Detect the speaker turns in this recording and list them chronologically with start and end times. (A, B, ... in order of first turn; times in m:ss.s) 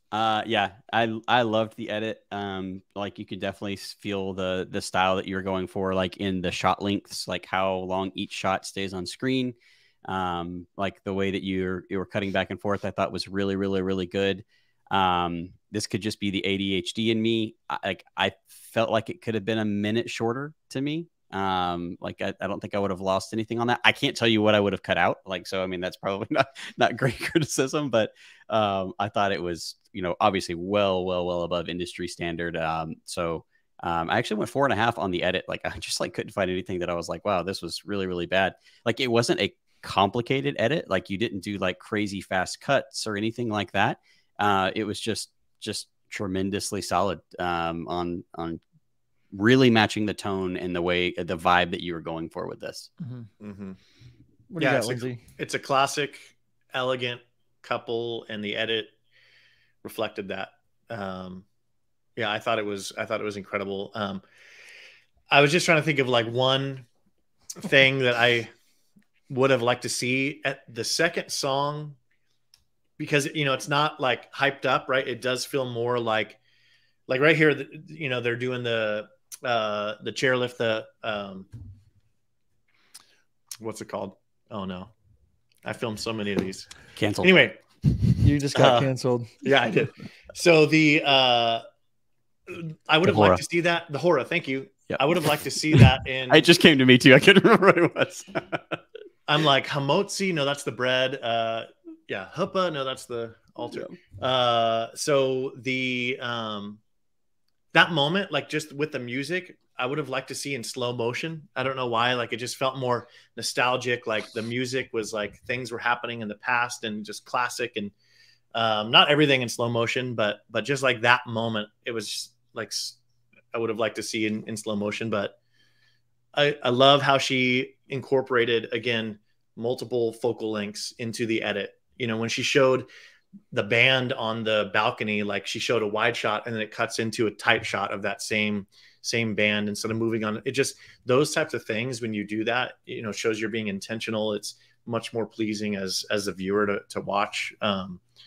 0:00.1-0:48.6 A
0:49.3-0:52.9 A
0:53.0-0:53.3 B
0:53.4-0:53.8 C
0:54.5-0:55.2 B
0:54.6-0:58.9 C
0:59.8-1:01.4 C
1:02.2-1:04.2 C
1:05.3-1:06.8 C
1:07.6-1:08.5 C
1:09.3-1:12.0 C
1:13.0-1:16.4 C
1:17.1-1:21.5 C
1:23.6-1:24.9 C
1:25.6-1:26.7 C
1:27.0-1:27.3 A
1:27.2-1:27.6 C
1:28.2-1:29.3 B
1:28.5-1:28.9 C
1:29.4-1:31.6 C
1:32.5-1:36.5 C
1:33.0-1:33.4 A
1:34.9-1:35.1 A
1:35.7-1:38.8 A
1:39.3-1:46.8 C
1:47.7-1:57.9 C
1:58.5-2:03.0 C
2:03.5-2:05.3 C
2:06.3-2:12.9 C
2:13.5-2:28.0 C